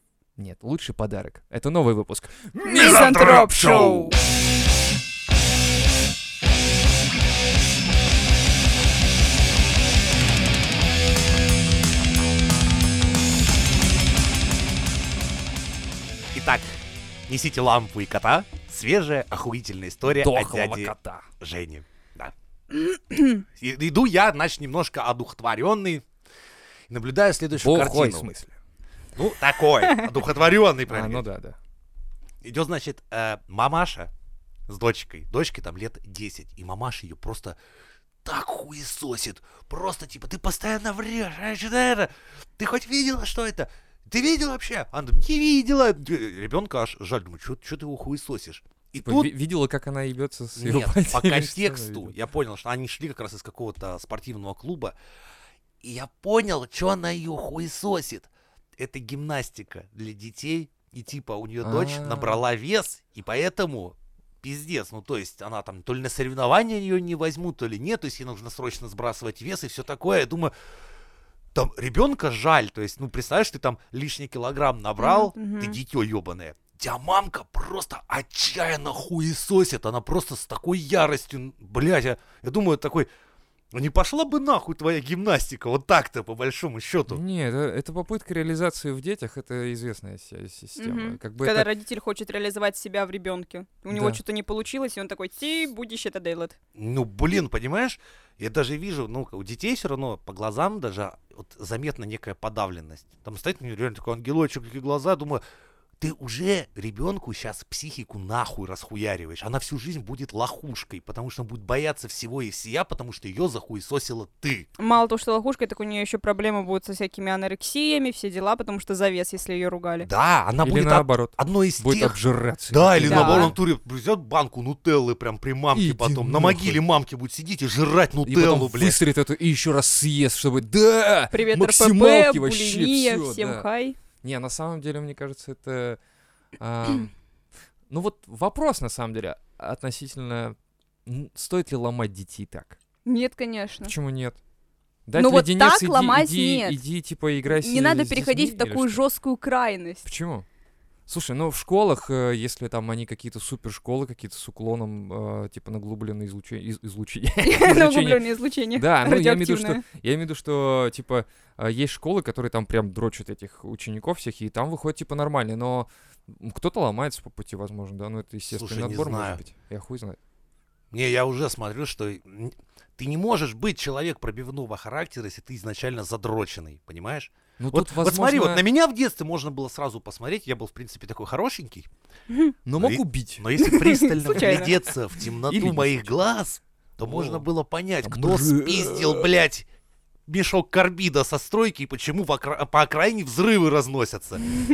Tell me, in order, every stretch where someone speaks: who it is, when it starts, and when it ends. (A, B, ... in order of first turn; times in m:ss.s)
0:00.4-0:03.2 A
0:02.5-0:04.1 B
0:02.6-0:04.1 C
0:16.3-0:16.6 B
0:17.3-0:22.3 B
0:20.2-0:21.3 A
0:22.7-0:23.4 C
0:23.6-0:26.0 B
0:26.9-0:28.3 B
0:27.6-0:28.5 A
0:29.2-0:31.2 B
0:30.9-0:31.6 A
0:32.4-0:34.1 B
0:34.7-0:37.6 B
0:38.2-0:49.3 B
0:49.0-0:52.1 A
0:50.6-0:55.0 B
0:55.8-1:10.5 B
1:01.6-1:02.4 A
1:11.5-1:23.1 B
1:15.0-1:15.8 C
1:23.7-1:27.2 B
1:27.1-1:31.7 A
1:30.8-1:36.6 C
1:33.9-1:34.2 A
1:36.7-1:45.4 B
1:46.0-1:54.7 B
1:54.8-2:00.1 C
2:00.0-2:02.2 B
2:00.6-2:03.6 A
2:02.7-2:09.0 B
2:03.0-2:03.5 C
2:05.7-2:06.8 A
2:08.2-2:13.6 A
2:11.3-2:14.0 C
2:14.2-2:16.0 A
2:16.6-2:17.1 A
2:17.9-2:22.8 A
2:23.0-2:23.9 C
2:23.8-2:24.4 A
2:25.1-2:29.0 A
2:25.2-2:26.8 C
2:27.5-2:30.0 C
2:30.0-2:30.4 A
2:31.1-2:38.2 A
2:37.4-2:39.8 C
2:38.7-2:50.2 A
2:48.5-2:49.4 B
2:50.9-3:01.9 B
2:57.6-2:58.6 A
3:02.3-3:02.5 C
3:02.6-3:03.4 A
3:02.8-3:09.7 B
3:03.6-3:04.7 C
3:05.4-3:06.1 A
3:07.0-3:07.4 A
3:08.0-3:09.2 A
3:10.3-3:14.4 B